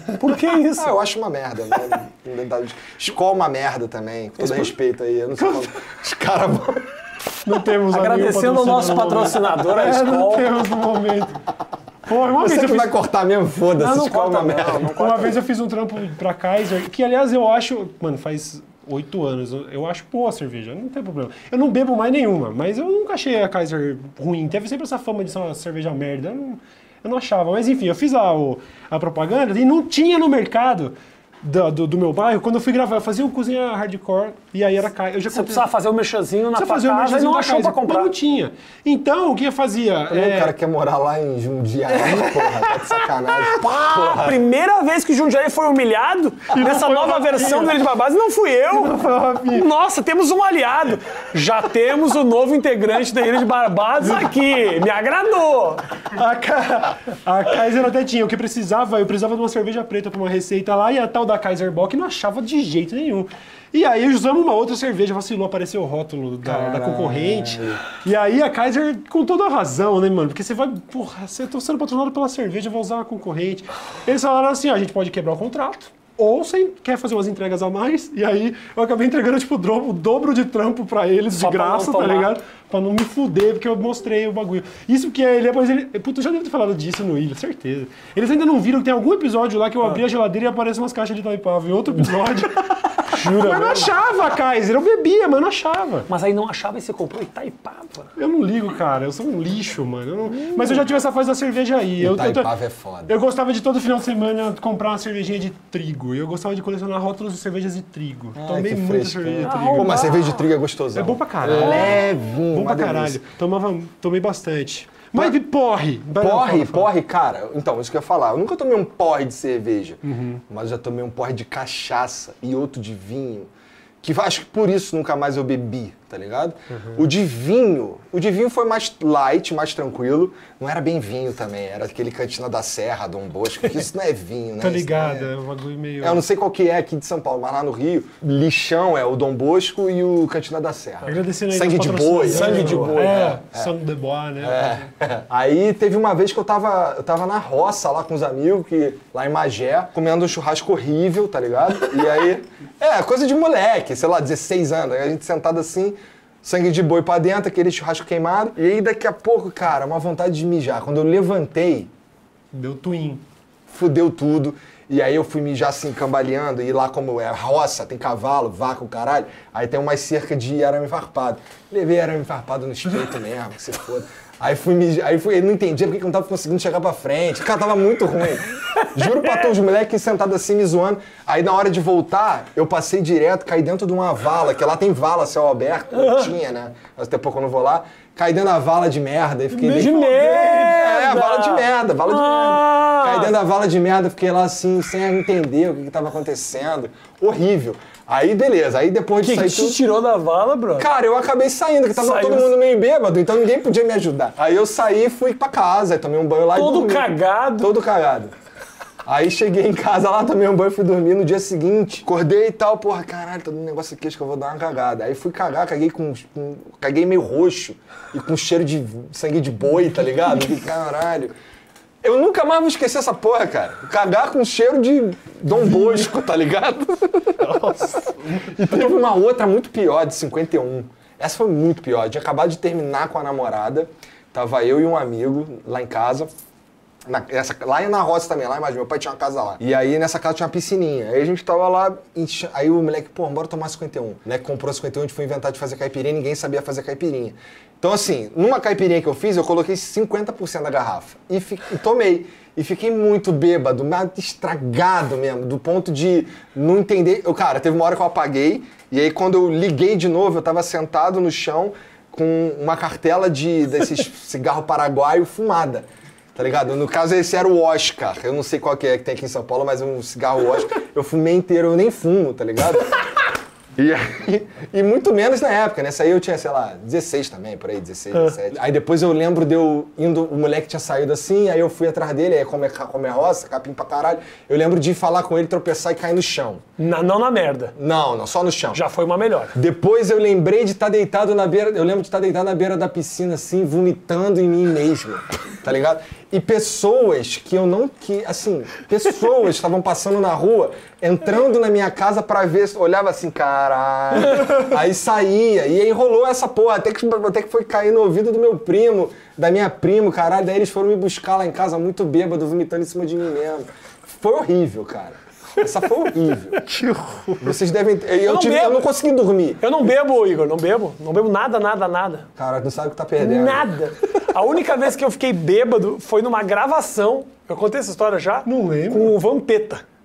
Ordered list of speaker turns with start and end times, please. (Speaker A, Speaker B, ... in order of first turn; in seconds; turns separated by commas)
Speaker A: 0.2-1.0, Speaker B: 0.8-6.8, Speaker A: 4.4-4.7, Speaker C: 7.4-11.4, Speaker A: 7.6-10.6, Speaker C: 12.1-12.9, Speaker B: 12.1-14.9, Speaker A: 13.8-15.4, Speaker C: 14.9-35.7, Speaker A: 35.3-38.1, Speaker C: 36.5-40.5, Speaker B: 40.1-44.3, Speaker C: 41.9-43.6, Speaker A: 43.6-55.8, Speaker C: 46.5-47.8, Speaker C: 48.7-49.7, Speaker C: 56.1-96.1, Speaker B: 66.4-67.8, Speaker A: 81.3-82.3, Speaker A: 93.1-94.0, Speaker A: 96.1-98.1, Speaker C: 98.2-102.5, Speaker A: 100.3-100.9, Speaker B: 102.0-103.1, Speaker C: 103.1-110.1, Speaker B: 108.4-113.2, Speaker A: 109.4-110.5, Speaker C: 110.9-116.9, Speaker A: 111.5-112.0, Speaker B: 116.2-123.5, Speaker C: 120.0-120.4, Speaker B: 124.0-135.3, Speaker C: 126.7-127.1, Speaker C: 134.6-136.2, Speaker B: 136.0-143.7, Speaker C: 141.1-144.9, Speaker A: 142.2-143.4, Speaker B: 144.4-161.9, Speaker C: 162.5-163.2, Speaker B: 163.7-199.8, Speaker A: 178.7-179.5, Speaker A: 185.9-186.3, Speaker C: 189.5-190.8, Speaker A: 189.7-193.3, Speaker A: 199.2-200.9, Speaker B: 200.8-208.3, Speaker A: 201.9-202.5, Speaker A: 206.5-207.7, Speaker B: 209.0-221.3, Speaker B: 222.0-227.4, Speaker C: 225.5-226.2, Speaker C: 227.4-229.0, Speaker B: 228.5-236.3, Speaker B: 237.1-273.1, Speaker B: 273.8-286.6, Speaker A: 278.1-278.4, Speaker A: 286.8-287.7, Speaker B: 287.8-288.8, Speaker A: 288.7-289.6, Speaker B: 289.5-316.6, Speaker C: 315.6-317.6, Speaker B: 317.4-319.6, Speaker A: 318.2-318.9, Speaker A: 319.6-322.2, Speaker B: 322.4-323.7, Speaker A: 323.2-329.8, Speaker C: 328.4-329.1